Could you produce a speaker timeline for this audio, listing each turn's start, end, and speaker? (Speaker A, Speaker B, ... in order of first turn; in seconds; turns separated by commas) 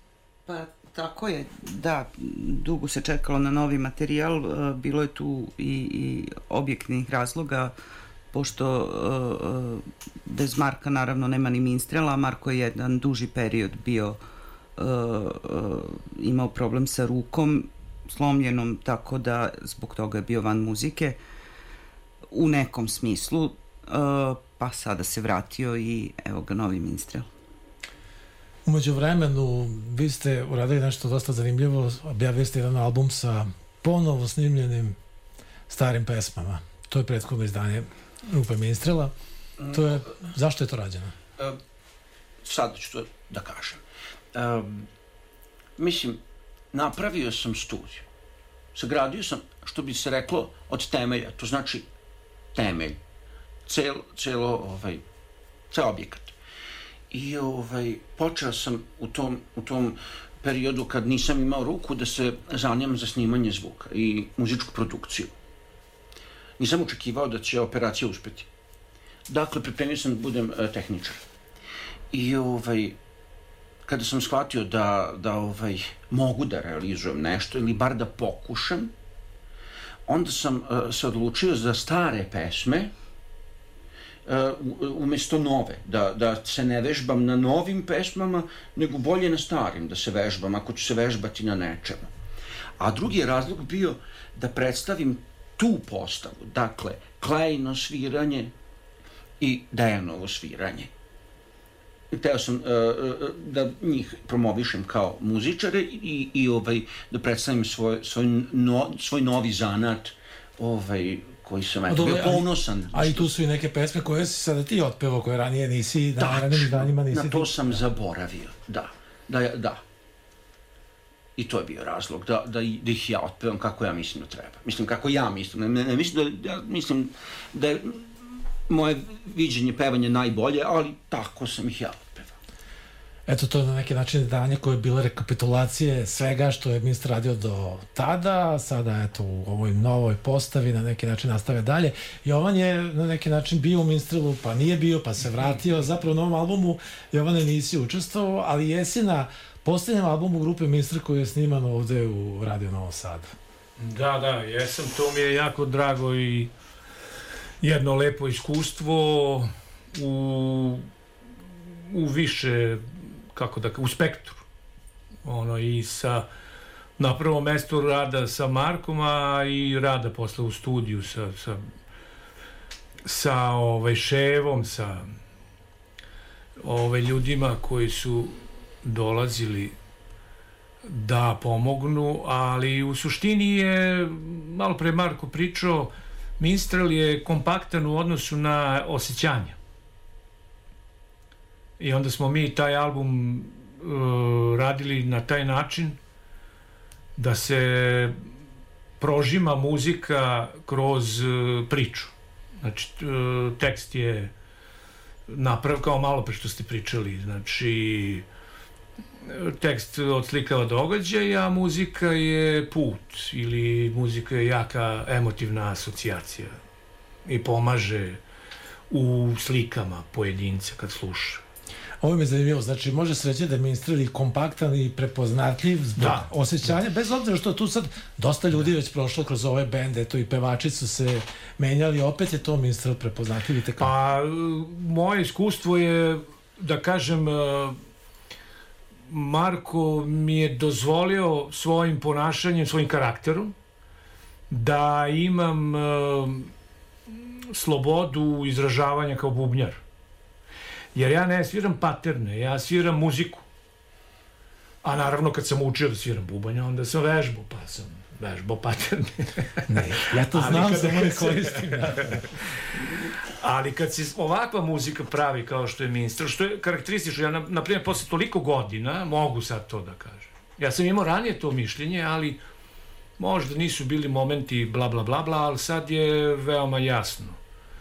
Speaker A: 0.5-7.7, Speaker A: 8.3-14.2, Speaker A: 14.8-21.2, Speaker A: 22.3-27.2, Speaker B: 28.6-35.0, Speaker B: 35.7-39.1, Speaker C: 39.6-40.1, Speaker B: 39.7-41.1, Speaker C: 42.4-43.8, Speaker C: 44.3-44.9, Speaker C: 45.8-46.2, Speaker C: 46.7-48.0, Speaker C: 48.7-51.9, Speaker C: 52.5-53.0, Speaker C: 53.6-55.0, Speaker C: 55.7-56.3, Speaker C: 57.1-65.3, Speaker C: 66.6-68.5, Speaker C: 69.3-71.2, Speaker C: 72.1-73.0, Speaker C: 73.8-78.9, Speaker C: 80.1-82.9, Speaker C: 84.2-92.1, Speaker C: 92.8-98.5, Speaker C: 99.4-100.9, Speaker C: 102.1-113.3, Speaker B: 111.9-117.7, Speaker C: 116.2-119.8, Speaker C: 121.4-132.4, Speaker B: 133.3-153.3, Speaker D: 153.8-156.5, Speaker D: 157.6-160.9, Speaker D: 161.7-164.4, Speaker D: 165.2-166.3, Speaker D: 167.0-171.7, Speaker D: 173.0-175.1, Speaker D: 176.6-179.7, Speaker D: 180.8-189.6, Speaker D: 191.8-196.0, Speaker D: 197.2-198.2, Speaker D: 199.0-204.3, Speaker D: 205.3-208.2, Speaker D: 209.2-216.5, Speaker D: 217.2-218.2, Speaker D: 218.9-221.4, Speaker B: 222.0-233.9, Speaker D: 226.0-226.3, Speaker D: 233.8-237.8, Speaker D: 239.1-243.5, Speaker D: 244.5-246.5, Speaker D: 247.1-249.8, Speaker D: 250.9-253.4, Speaker D: 254.8-272.4, Speaker B: 259.7-262.4, Speaker D: 273.2-277.4